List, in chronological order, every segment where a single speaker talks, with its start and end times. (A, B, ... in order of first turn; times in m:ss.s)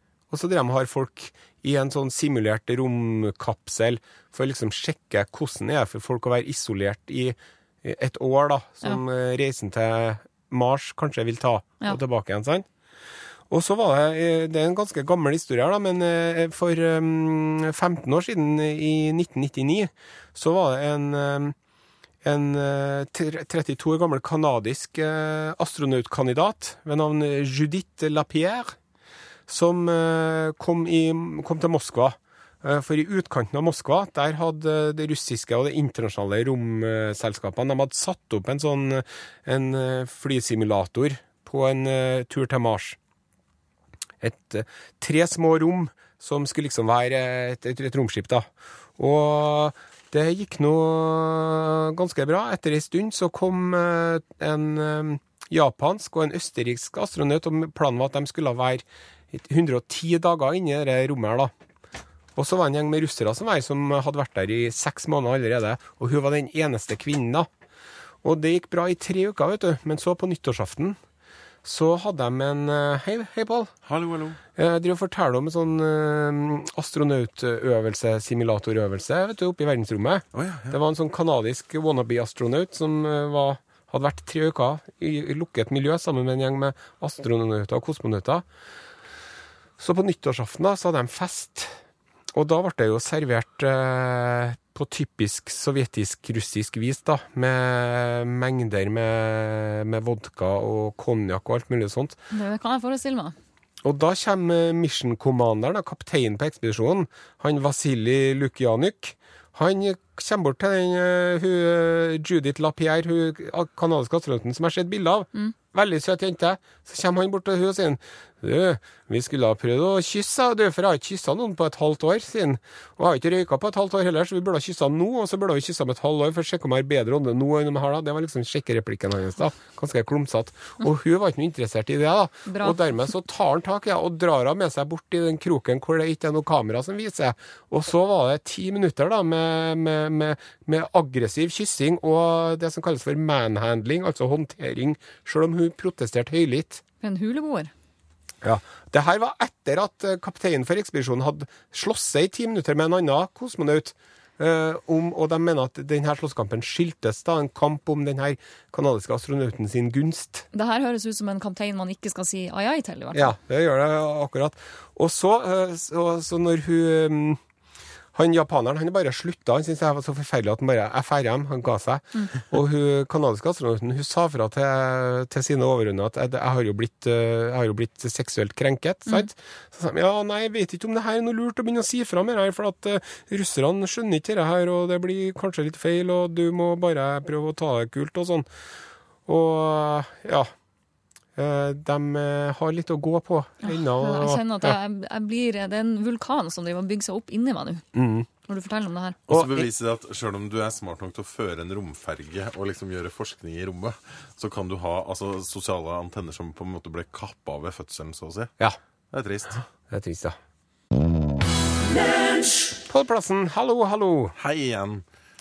0:00.3-0:12.6 A
0:13.5-0:21.5 A
0:22.2-0:28.8 A
0:29.5-0:43.0 A
0:44.2-0:48.4 A
0:49.0-1:01.5 A
1:02.4-1:07.5 A
1:08.2-1:11.0 A
1:11.6-1:13.7 A
1:13.8-1:14.4 B
1:14.6-1:28.4 A
1:20.3-1:20.8 B
1:29.8-1:31.7 A
1:32.3-1:42.2 A
1:42.3-1:43.3 C
1:43.8-2:26.8 A
2:12.5-2:12.8 C
2:27.0-2:27.7 C
2:28.4-2:40.4 A
2:40.5-2:43.3 C
2:43.1-2:47.4 A
2:48.1-3:08.4 A
3:09.3-3:10.5 A
3:11.4-3:14.8 A
3:13.6-3:17.8 C
3:17.9-3:18.3 A
3:18.5-3:19.2 C
3:19.3-3:19.7 A
3:19.3-3:28.5 B
3:29.1-3:29.6 B
3:29.9-3:30.4 A
3:32.9-3:34.3 A
3:34.4-3:35.0 B